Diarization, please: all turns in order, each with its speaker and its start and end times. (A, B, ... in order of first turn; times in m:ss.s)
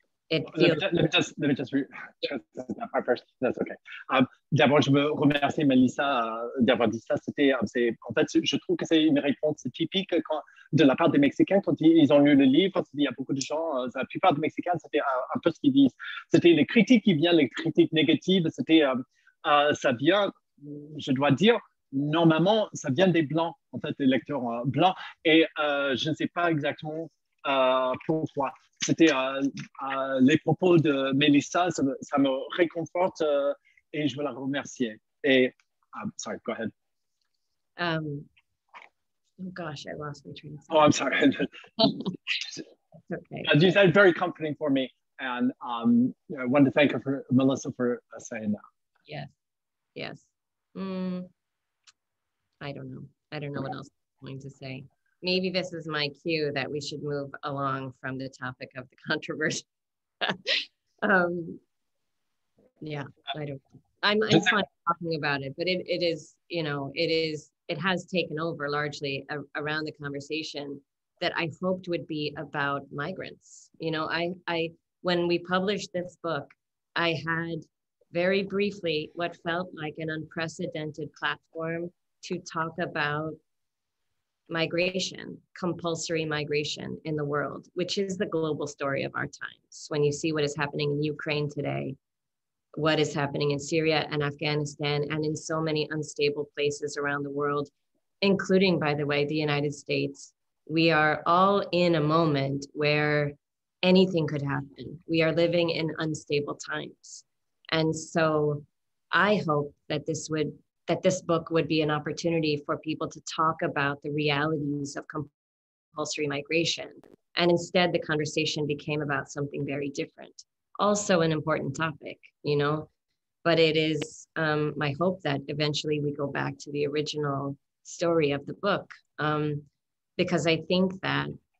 0:00.3-0:00.8 A
0:00.5-0:36.7 B
0:37.8-0:38.3 A
0:39.4-0:40.9 A
0:40.7-0:42.0 B
0:43.1-0:43.5 A
0:43.4-0:48.6 B
0:50.0-0:51.3 A
0:52.6-0:59.6 A
1:00.2-1:01.6 A
1:02.8-1:23.4 A
1:24.5-1:32.0 A
1:32.8-1:37.7 A
1:38.2-1:55.3 A
1:55.9-2:02.9 A
2:03.4-2:09.7 A
2:10.2-2:11.3 A